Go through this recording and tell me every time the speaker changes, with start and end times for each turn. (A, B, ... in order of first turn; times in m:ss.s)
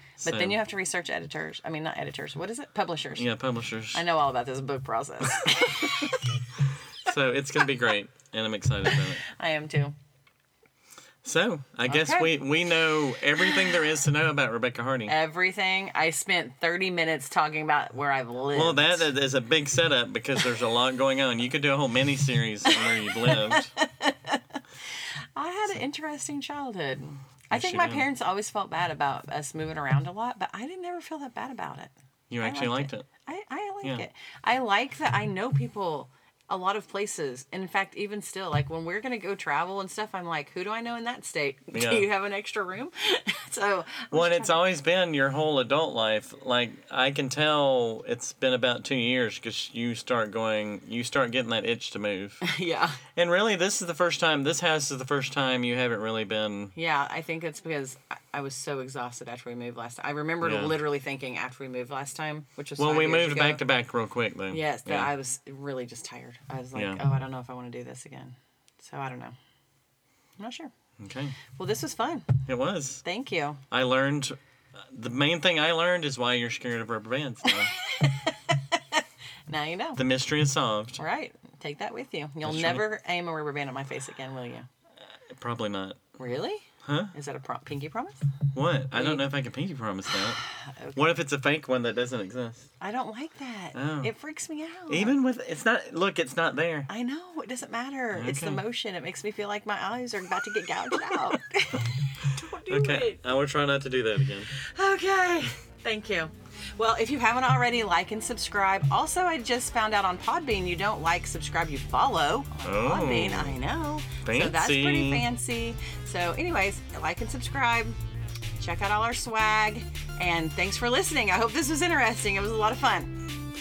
0:00.2-0:03.3 A
0:00.2-0:00.6 B
0:03.2-0:04.0 B
0:03.9-0:06.5 A
0:05.4-0:05.7 B
0:07.0-0:09.2 B
0:08.9-0:10.0 A
0:11.2-0:15.1 B
0:11.9-0:12.4 A
0:15.1-0:19.1 A
0:18.6-0:23.7 B
0:22.7-0:44.6 A
0:27.5-0:28.0 B
0:32.3-0:33.1 B
0:41.7-0:42.1 B
0:44.1-0:52.4 B
0:52.4-0:53.0 A
0:53.2-0:56.7 B
0:56.8-1:03.6 A
1:00.4-1:00.8 B
1:02.8-1:05.1 B
1:04.5-1:09.4 A
1:06.8-1:07.0 B
1:10.4-1:10.7 A
1:11.0-1:11.4 B
1:11.5-1:12.4 A
1:12.5-1:13.0 B
1:13.0-1:13.6 A
1:13.7-1:17.7 B
1:17.4-1:20.0 A
1:20.0-1:21.0 B
1:21.0-1:24.7 A
1:22.4-1:22.8 B
1:25.1-1:26.0 B
1:26.2-1:28.3 A
1:26.8-1:27.1 B
1:28.5-1:30.4 B
1:28.9-1:29.2 A
1:30.4-1:31.1 A
1:31.0-1:32.7 B
1:32.8-1:35.2 A
1:33.7-1:34.1 B
1:34.9-1:36.9 B
1:36.9-1:43.2 A
1:38.1-1:38.6 B
1:42.7-1:44.5 B
1:44.5-1:58.0 A
1:52.6-1:53.6 B
1:54.2-1:55.3 B
1:58.6-2:03.1 A